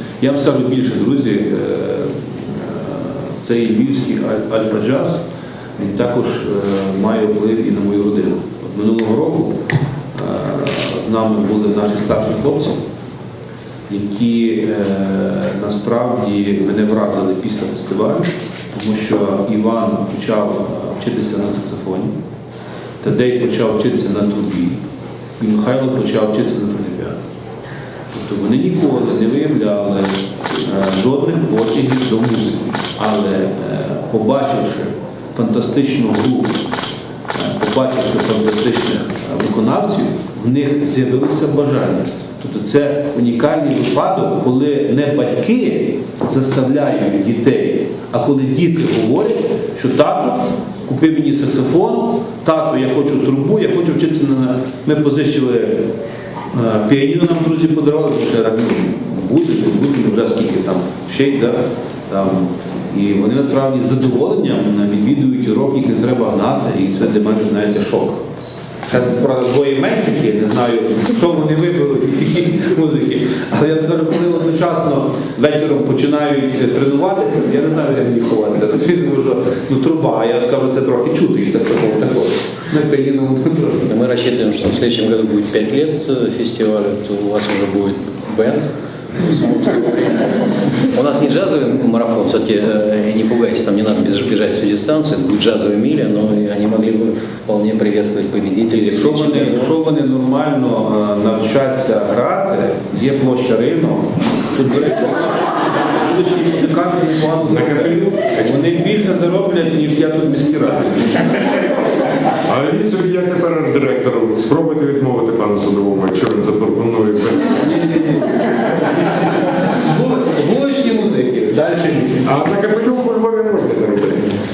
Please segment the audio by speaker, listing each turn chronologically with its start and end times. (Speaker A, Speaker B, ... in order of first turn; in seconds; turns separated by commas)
Speaker A: 0.2-5.2, Speaker A: 5.8-9.6, Speaker A: 10.1-12.8, Speaker A: 13.9-22.1, Speaker A: 23.0-24.8, Speaker A: 25.4-27.2, Speaker A: 28.1-36.6, Speaker A: 37.3-55.9, Speaker A: 56.5-68.2, Speaker A: 68.9-83.9, Speaker B: 83.9-99.7, Speaker A: 98.7-111.3, Speaker C: 107.5-108.4, Speaker C: 112.4-117.6, Speaker A: 117.6-122.3, Speaker C: 122.2-124.4